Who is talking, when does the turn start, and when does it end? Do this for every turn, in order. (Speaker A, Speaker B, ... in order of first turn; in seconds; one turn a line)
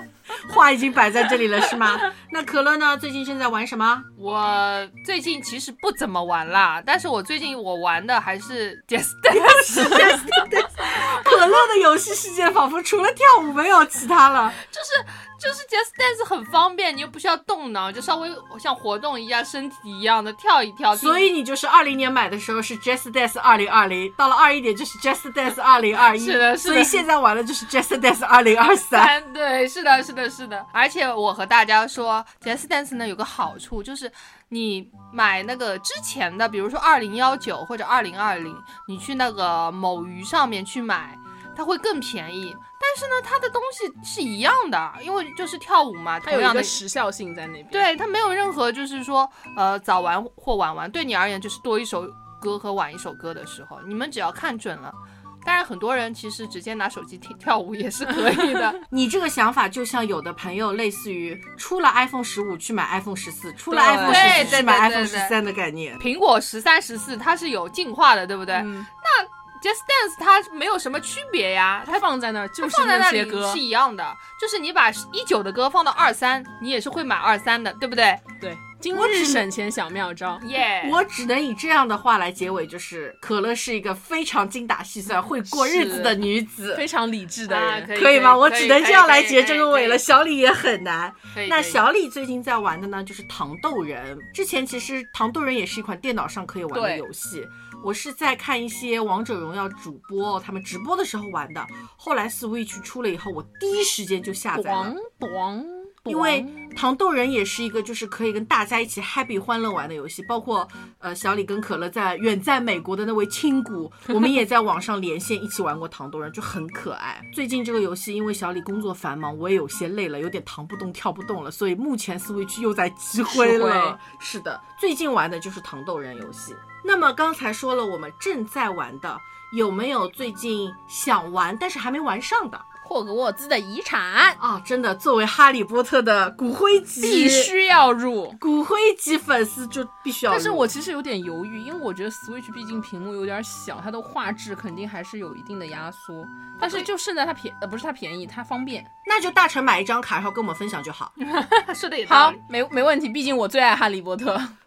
Speaker A: 0.3-4.1
Speaker B: 4.2-10.9
Speaker A: 9.3-14.6
Speaker B: 14.6-21.3
Speaker A: 21.0-29.1
Speaker B: 26.1-27.0
Speaker B: 28.7-46.8
Speaker C: 46.2-47.9
Speaker B: 47.7-58.8
Speaker C: 58.3-58.7
Speaker A: 58.9-66.0
Speaker C: 63.7-64.6
Speaker B: 64.0-65.3
Speaker B: 66.0-72.0
Speaker C: 68.5-68.9
Speaker C: 71.9-73.6
Speaker B: 72.6-78.2
Speaker C: 78.4-80.4
Speaker A: 78.9-79.5
Speaker B: 80.4-81.0
Speaker A: 80.8-86.9
Speaker C: 85.5-87.9
Speaker B: 87.5-90.0
Speaker A: 87.9-105.0
Speaker B: 91.3-91.8
Speaker C: 96.7-97.0
Speaker C: 104.5-106.7
Speaker A: 106.1-132.7
Speaker C: 123.3-124.0
Speaker C: 132.8-134.4
Speaker A: 134.4-137.5
Speaker C: 137.0-138.4
Speaker A: 138.4-140.7
Speaker C: 140.3-148.9
Speaker B: 146.6-146.9
Speaker A: 149.1-151.1
Speaker B: 151.3-152.4
Speaker C: 152.1-154.6